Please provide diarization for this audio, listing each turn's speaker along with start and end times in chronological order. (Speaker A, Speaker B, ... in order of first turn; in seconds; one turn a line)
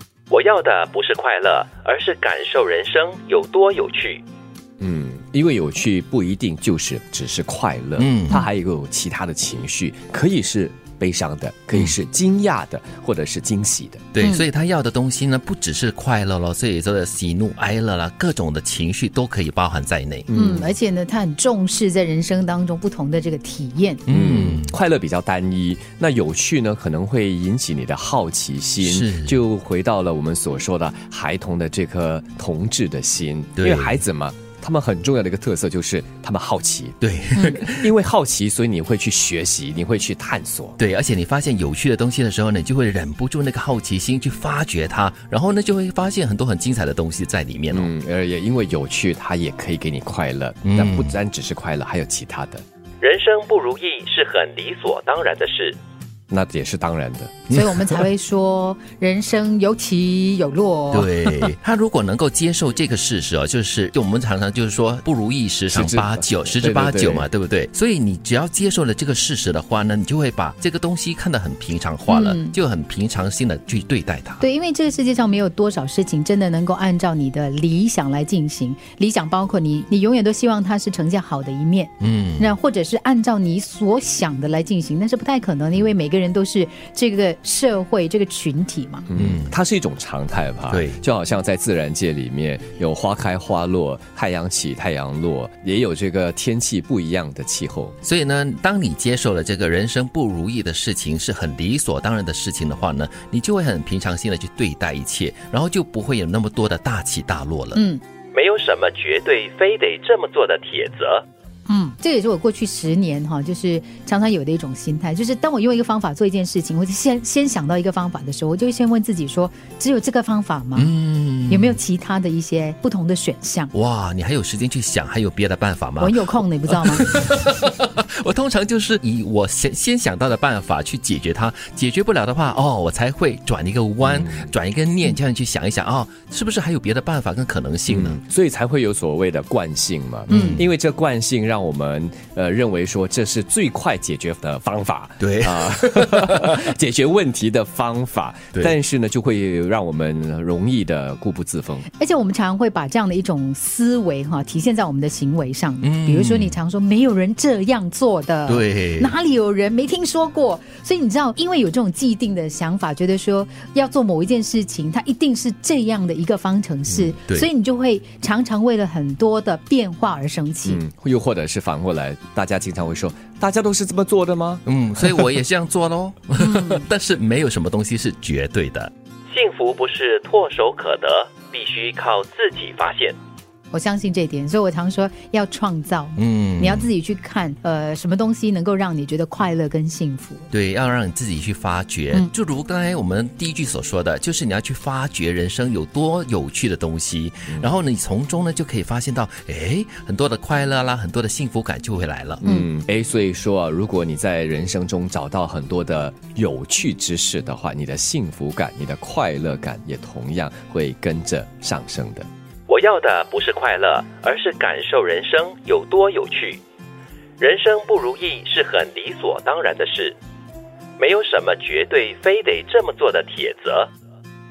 Speaker A: 0.3-4.2
Speaker B: 1.6-3.1
Speaker C: 4.8-14.1
Speaker B: 8.0-8.5
Speaker B: 14.1-20.3
Speaker D: 14.2-14.5
Speaker C: 20.3-20.8
Speaker D: 20.3-24.0
Speaker B: 24.1-24.7
Speaker C: 24.1-40.8
Speaker B: 28.8-29.4
Speaker B: 33.6-34.0
Speaker B: 37.0-37.9
Speaker D: 37.4-37.6
Speaker B: 40.8-47.9
Speaker C: 47.7-52.6
Speaker B: 50.6-51.2
Speaker A: 53.0-55.8
Speaker C: 56.3-57.3
Speaker B: 57.5-58.0
Speaker D: 57.5-61.5
Speaker B: 60.9-74.4
Speaker C: 65.7-67.3
Speaker D: 72.1-72.6
Speaker D: 74.4-89.0
Speaker B: 82.0-82.5
Speaker C: 89.1-98.0
Speaker B: 89.2-89.5
Speaker B: 90.7-91.0
Speaker B: 98.0-107.8
Speaker D: 107.8-108.0
Speaker A: 108.3-111.2
Speaker D: 111.7-120.9
Speaker B: 120.8-121.8
Speaker D: 121.5-123.7
Speaker B: 123.7-138.2
Speaker D: 126.0-127.1
Speaker C: 134.0-134.5
Speaker C: 137.9-151.9
Speaker B: 140.3-140.7
Speaker D: 140.3-140.6
Speaker B: 145.2-146.7
Speaker D: 152.0-170.8
Speaker B: 155.8-156.6
Speaker B: 158.5-159.1
Speaker C: 166.9-167.2
Speaker C: 170.7-175.3
Speaker B: 174.7-178.9
Speaker D: 176.4-176.9
Speaker A: 179.3-183.2
Speaker D: 183.7-190.5
Speaker B: 186.2-186.9
Speaker B: 190.5-202.4
Speaker C: 202.4-212.3
Speaker A: 212.7-216.6
Speaker B: 212.8-214.9
Speaker A: 217.4-219.9
Speaker B: 218.0-220.1
Speaker A: 221.0-223.9
Speaker B: 221.7-222.0
Speaker B: 222.8-223.1